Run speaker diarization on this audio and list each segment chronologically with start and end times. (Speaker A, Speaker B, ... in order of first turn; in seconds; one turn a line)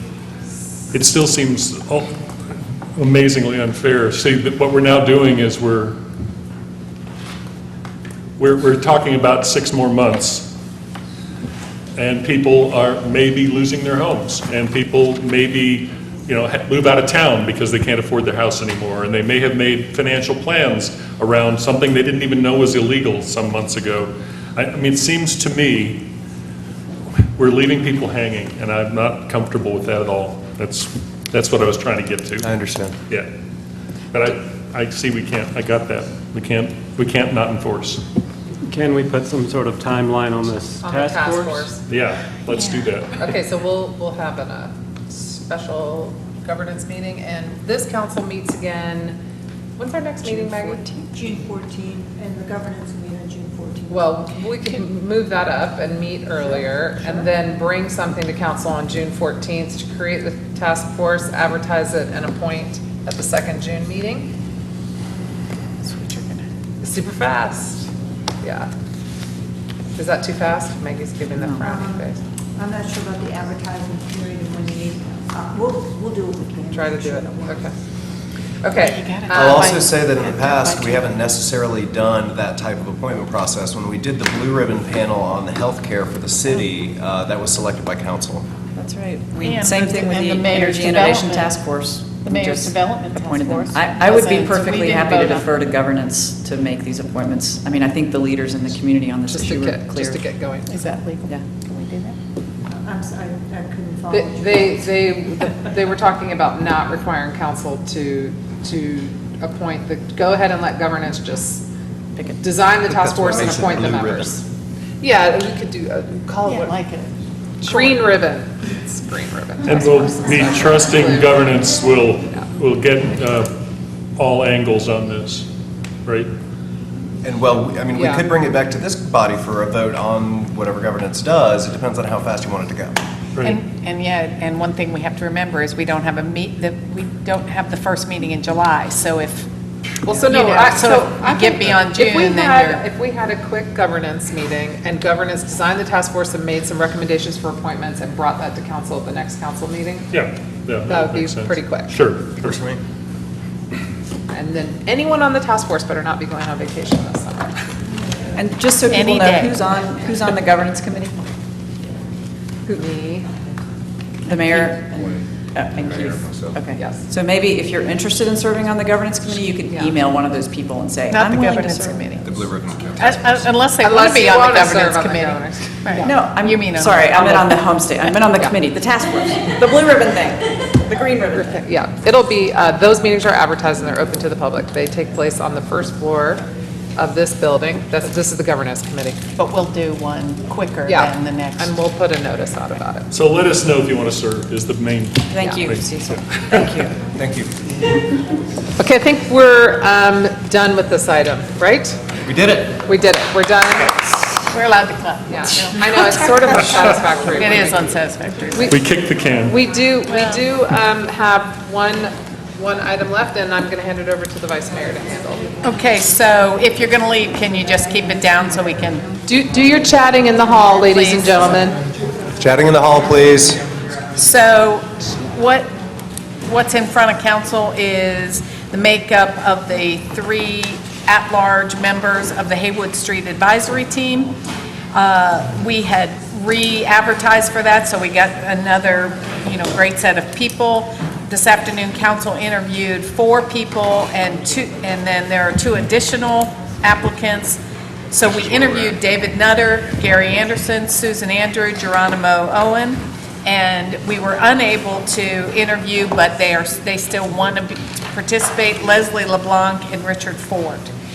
Speaker A: 0.9-2.1
Speaker A: 3.0-6.0
Speaker A: 8.4-10.5
Speaker A: 12.0-26.0
Speaker A: 27.4-32.5
Speaker B: 32.4-33.0
Speaker A: 34.1-38.0
Speaker C: 38.7-41.7
Speaker D: 40.8-41.8
Speaker A: 41.9-43.3
Speaker D: 43.2-49.2
Speaker D: 49.8-51.1
Speaker E: 50.3-50.8
Speaker F: 51.1-54.4
Speaker D: 53.9-64.3
Speaker F: 56.4-57.1
Speaker G: 65.8-66.5
Speaker D: 66.8-67.9
Speaker D: 68.4-68.7
Speaker D: 70.0-72.2
Speaker E: 71.3-71.8
Speaker F: 71.5-77.7
Speaker D: 76.7-77.7
Speaker D: 78.6-79.7
Speaker G: 78.7-81.1
Speaker B: 79.3-88.5
Speaker E: 88.8-100.2
Speaker G: 89.4-91.7
Speaker G: 92.2-95.5
Speaker D: 99.3-100.8
Speaker G: 100.7-102.2
Speaker F: 102.7-105.8
Speaker D: 104.1-111.7
Speaker D: 112.4-114.5
Speaker B: 112.9-114.3
Speaker D: 115.0-116.8
Speaker G: 116.5-117.1
Speaker D: 117.6-121.5
Speaker G: 117.7-118.0
Speaker A: 119.7-123.5
Speaker A: 124.2-125.5
Speaker A: 126.0-126.3
Speaker B: 127.2-133.0
Speaker D: 127.9-128.2
Speaker G: 133.4-139.5
Speaker D: 140.1-150.2
Speaker G: 140.1-142.8
Speaker A: 150.1-152.6
Speaker D: 150.8-151.9
Speaker B: 152.4-152.8
Speaker D: 154.3-157.5
Speaker E: 158.3-161.2
Speaker G: 158.9-159.6
Speaker D: 162.7-163.3
Speaker E: 164.2-172.2
Speaker D: 166.8-167.1
Speaker D: 169.7-169.9
Speaker G: 171.1-172.3
Speaker B: 172.2-173.5
Speaker G: 173.0-177.6
Speaker D: 173.8-176.1
Speaker E: 176.0-181.6
Speaker D: 181.6-189.2
Speaker G: 189.4-191.8
Speaker D: 190.9-193.1
Speaker A: 193.1-196.6
Speaker E: 195.3-197.0
Speaker D: 195.4-195.7
Speaker B: 197.1-197.5
Speaker D: 198.8-202.0
Speaker B: 202.3-202.8
Speaker D: 202.8-204.3
Speaker G: 204.5-208.8
Speaker D: 205.3-208.0
Speaker A: 208.7-209.6
Speaker D: 209.4-215.5
Speaker G: 210.1-210.4
Speaker G: 215.6-219.1
Speaker D: 219.3-221.8
Speaker G: 220.7-221.6
Speaker B: 222.4-223.6
Speaker G: 224.2-225.7
Speaker G: 226.4-234.3
Speaker G: 234.9-247.6
Speaker G: 248.1-260.9